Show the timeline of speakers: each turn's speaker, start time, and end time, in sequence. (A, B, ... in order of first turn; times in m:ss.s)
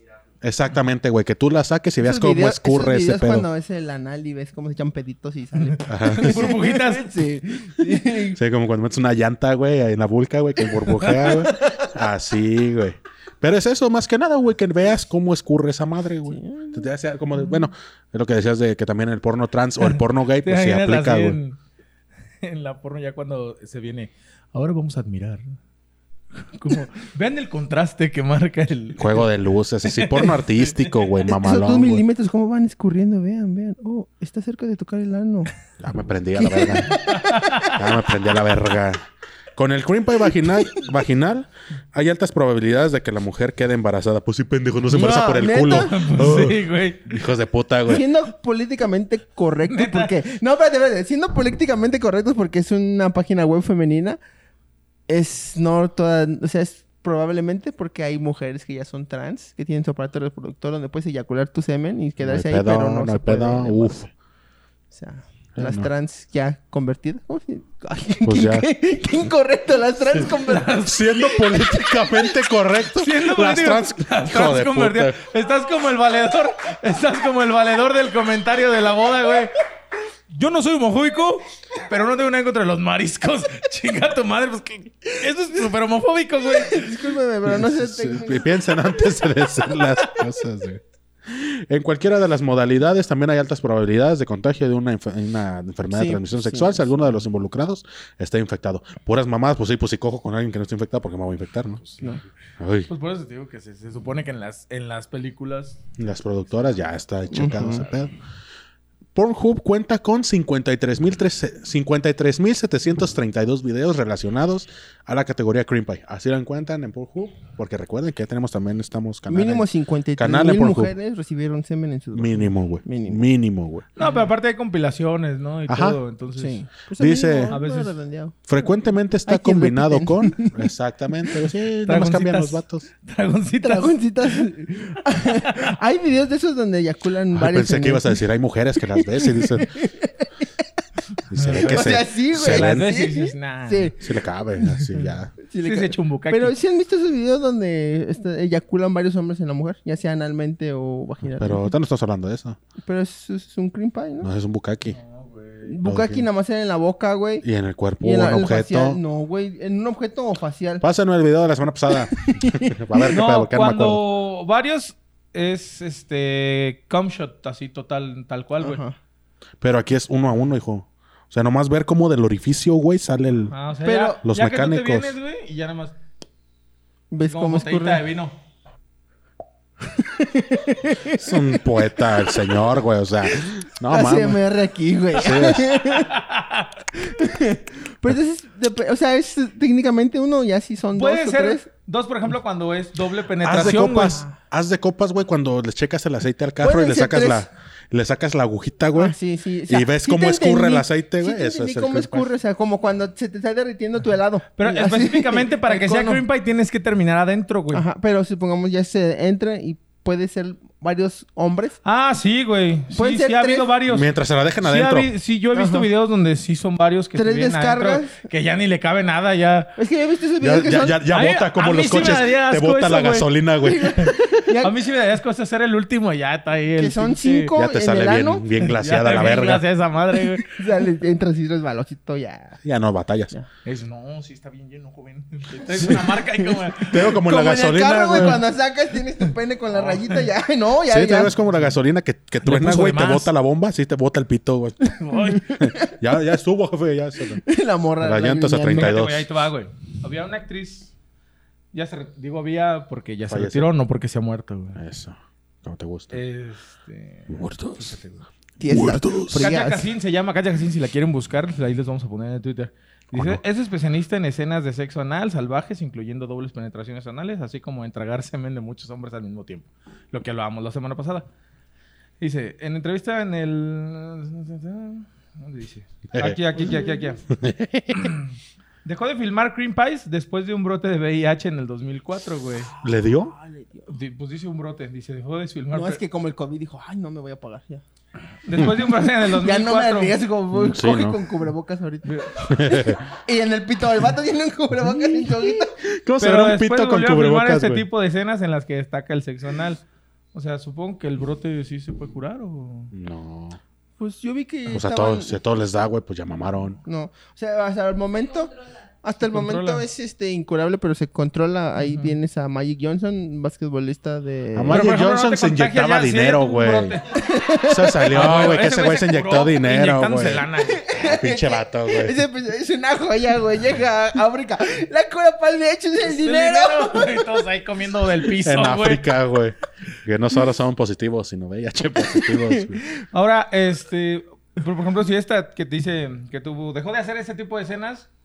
0:00.4-0:03.5 A
0:02.0-0:08.4 B
0:05.7-0:07.1 C
0:05.9-0:06.5 A
0:08.2-0:21.4 A
0:11.0-0:11.3 C
0:11.2-0:11.9 B
0:16.2-0:16.9 B
0:19.8-0:21.6 C
0:22.4-0:25.6 C
0:26.4-0:29.3 C
0:29.0-0:32.0 A
0:29.8-0:30.9 C
0:31.3-0:35.5 B
0:35.8-0:37.0 A
0:36.4-0:37.8 B
0:36.9-0:37.8 C
0:37.6-0:39.0 A
0:39.6-0:48.0 A
0:44.9-0:46.4 B
0:45.8-0:47.2 C
0:47.9-0:54.2 B
0:49.6-0:50.2 C
0:55.1-1:04.0 B
1:02.2-1:04.1 A
1:04.9-1:10.9 B
1:05.6-1:05.9 A
1:08.2-1:08.7 A
1:10.3-1:11.1 C
1:10.8-1:15.2 A
1:11.5-1:12.0 B
1:12.9-1:19.5 C
1:20.3-1:27.0 C
1:26.4-1:28.5 B
1:27.5-1:41.9 A
1:35.9-1:37.1 B
1:42.6-1:42.9 A
1:42.9-1:45.8 C
1:46.0-1:48.1 A
1:47.3-1:47.9 B
1:49.1-2:00.9 A
1:59.3-2:03.2 B
2:02.1-2:03.9 A
2:04.0-2:06.6 C
2:05.7-2:06.0 A
2:06.4-2:08.4 B
2:07.0-2:07.5 A
2:07.5-2:07.9 C
2:08.5-2:12.9 A
2:09.2-2:10.6 B
2:11.8-2:14.4 C
2:13.6-2:18.2 B
2:15.2-2:15.7 C
2:17.3-2:19.7 A
2:19.0-2:20.6 B
2:21.3-2:22.9 A
2:21.3-2:23.9 C
2:21.5-2:24.0 B
2:24.0-2:25.3 A
2:24.9-2:31.7 B
2:25.6-2:26.5 C
2:31.4-2:32.6 A
2:32.8-2:34.3 B
2:34.2-2:35.0 A
2:34.8-2:35.8 C
2:35.6-2:37.5 B
2:35.8-2:36.2 A
2:37.4-2:39.0 A
2:38.0-2:40.8 B
2:40.8-2:44.0 A
2:42.1-2:43.1 B
2:43.1-2:48.8 C
2:48.6-2:49.0 B
2:49.6-2:53.5 A
2:53.5-2:56.0 C
2:53.8-2:54.2 B
2:54.2-2:55.1 A
2:57.1-2:58.0 B
2:57.2-2:58.4 C
2:59.9-3:02.4 B
3:01.1-3:04.4 A
3:03.3-3:06.2 B
3:05.1-3:05.7 A
3:05.9-3:06.7 C
3:06.9-3:11.7 B
3:11.0-3:14.2 C
3:13.4-3:19.2 A
3:16.6-3:17.5 B
3:19.0-3:26.2 B
3:19.7-3:22.3 A
3:24.6-3:27.8 C
3:27.7-3:31.8 B
3:31.8-3:34.1 C
3:32.9-3:33.7 B
3:33.9-3:35.1 A
3:34.6-3:39.8 C
3:35.5-3:35.9 B
3:37.1-3:38.2 B
3:39.8-3:41.0 B
3:40.4-3:44.2 A
3:41.1-3:43.3 C
3:43.6-3:44.8 B
3:44.0-3:47.5 C
3:46.8-3:48.6 B
3:47.5-3:49.6 A
3:48.6-3:50.6 C
3:50.1-3:52.6 B
3:52.6-3:53.3 A
3:53.6-3:57.2 C
3:55.8-3:56.2 B
3:56.8-4:01.3 B
3:56.8-3:58.4 A
3:59.7-4:00.3 C
4:00.9-4:04.9 A
4:02.4-4:03.3 C
4:05.0-4:05.6 C
4:05.1-4:06.0 B
4:05.6-4:07.4 A
4:07.4-4:09.0 B
4:08.0-4:09.3 A
4:08.7-4:10.9 C
4:11.7-4:14.8 C
4:13.3-4:13.7 A
4:14.8-4:16.2 A
4:16.1-4:18.0 C
4:17.3-4:18.1 A
4:18.6-4:19.9 B
4:18.7-4:19.5 A
4:19.3-4:31.3 C
4:23.1-4:23.4 A
4:32.2-4:37.2 C
4:36.1-4:36.4 A
4:36.6-4:37.1 B
4:37.3-4:38.1 A
4:37.9-4:38.3 C
4:38.8-4:42.7 C
4:42.8-4:43.3 A
4:43.0-4:43.9 B
4:43.9-4:46.0 C
4:45.7-4:47.8 B
4:48.4-4:50.2 C
4:49.4-4:55.8 B
4:50.5-4:51.2 A
4:52.0-4:52.3 C
4:52.5-4:53.0 A
4:55.8-4:57.8 A
4:56.2-4:59.8 C
5:00.3-5:02.9 C
5:02.9-5:03.6 A
5:04.0-5:05.4 B
5:04.7-5:06.8 A
5:06.8-5:14.9 B
5:09.2-5:09.8 C
5:11.8-5:12.1 C
5:14.5-5:17.0 A
5:14.7-5:17.2 C
5:17.1-5:18.1 B
5:17.6-5:22.2 A
5:18.1-5:20.8 C
5:20.6-5:27.4 B
5:26.0-5:29.0 C
5:28.4-5:32.8 A
5:32.2-5:32.6 B
5:33.0-5:38.1 C